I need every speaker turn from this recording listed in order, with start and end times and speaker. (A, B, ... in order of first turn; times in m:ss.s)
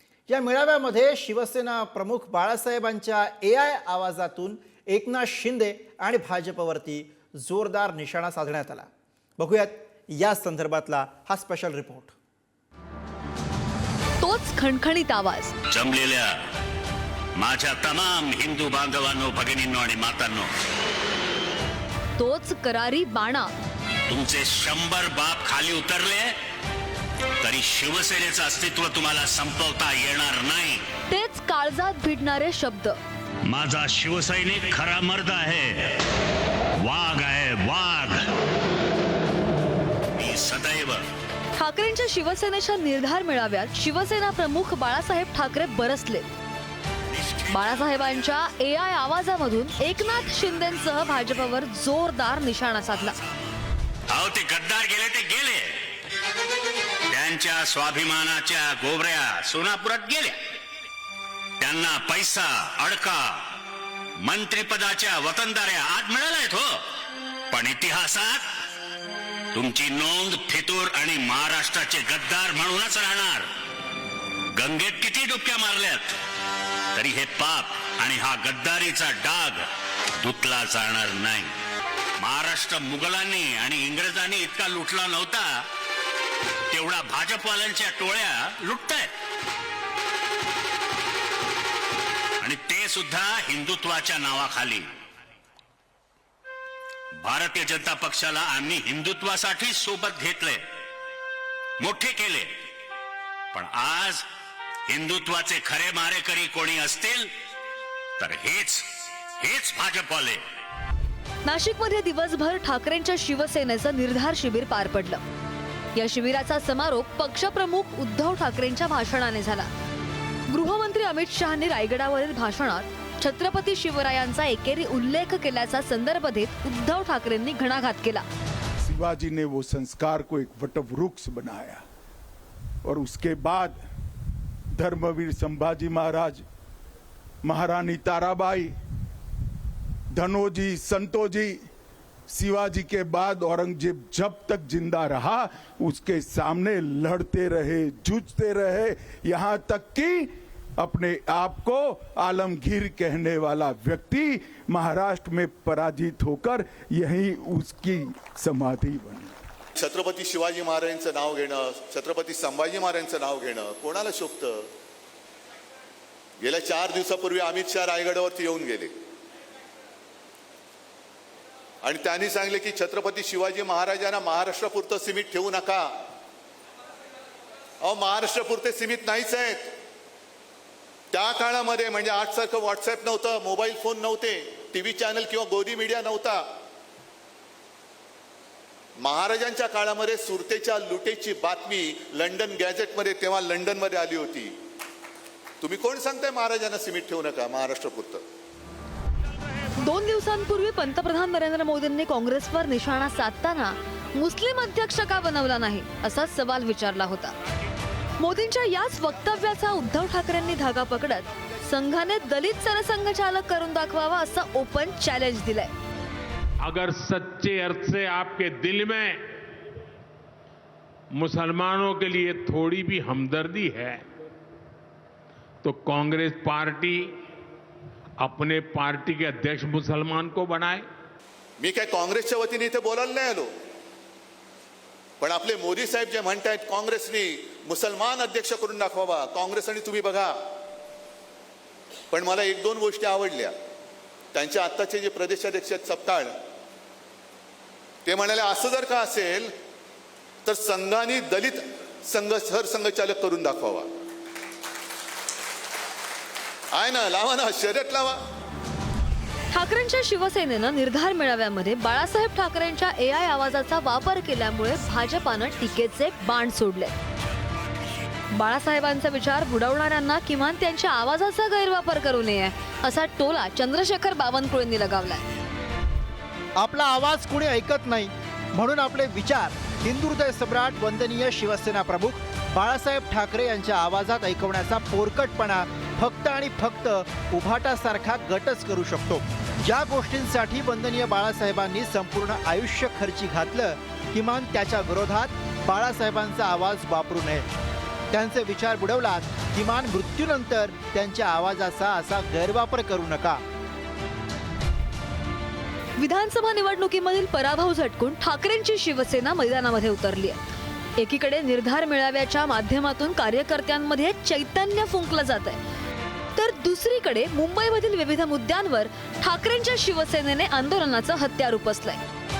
0:00.3-0:08.9 A
0:09.4-0:12.2 A
0:14.2-0:15.5 B
0:15.7-0:16.4 C
0:17.4-0:20.5 C
0:22.2-0:23.5 B
0:24.1-0:26.4 C
0:27.4-0:30.9 C
0:31.1-0:33.0 B
0:33.4-0:36.0 C
0:36.8-0:38.3 C
0:40.1-0:41.0 C
0:41.6-0:46.4 B
0:47.5-0:53.2 B
0:54.1-0:55.8 C
0:57.1-1:00.4 C
1:01.6-1:03.6 C
1:04.2-1:06.8 C
1:07.5-1:08.5 C
1:09.5-1:13.5 C
1:14.5-1:16.2 C
1:17.0-1:19.6 C
1:20.2-1:21.5 C
1:22.2-1:25.6 C
1:26.7-1:29.1 C
1:32.4-1:34.9 C
1:37.2-1:40.6 C
1:41.8-1:42.5 C
1:43.5-1:44.2 C
1:44.9-1:47.3 C
1:48.2-1:50.4 C
1:51.4-1:55.2 B
1:56.0-1:59.7 B
2:00.5-2:08.2 B
2:08.8-2:11.8 D
2:12.8-2:13.8 D
2:14.8-2:16.4 D
2:17.4-2:18.7 D
2:20.1-2:21.6 D
2:22.3-2:39.4 D
2:39.8-2:44.7 E
2:46.4-2:48.9 E
2:51.8-2:55.9 E
2:57.8-2:59.7 E
3:01.1-3:06.4 E
3:09.0-3:14.5 E
3:15.6-3:18.2 E
3:19.8-3:27.3 B
3:28.2-3:35.7 B
3:36.6-3:39.3 F
3:41.1-3:44.0 F
3:45.6-3:47.2 F
3:48.2-3:50.9 F
3:51.6-3:53.5 E
3:55.2-4:00.4 E
4:02.1-4:03.5 E
4:04.3-4:06.3 E
4:08.0-4:09.5 E
4:10.4-4:13.9 E
4:16.7-4:18.2 E
4:19.5-4:26.9 B
4:28.4-4:35.2 B
4:36.6-4:57.5 A
4:58.1-5:03.4 A
5:06.0-5:10.4 B
5:11.0-5:15.6 B
5:16.4-5:22.0 B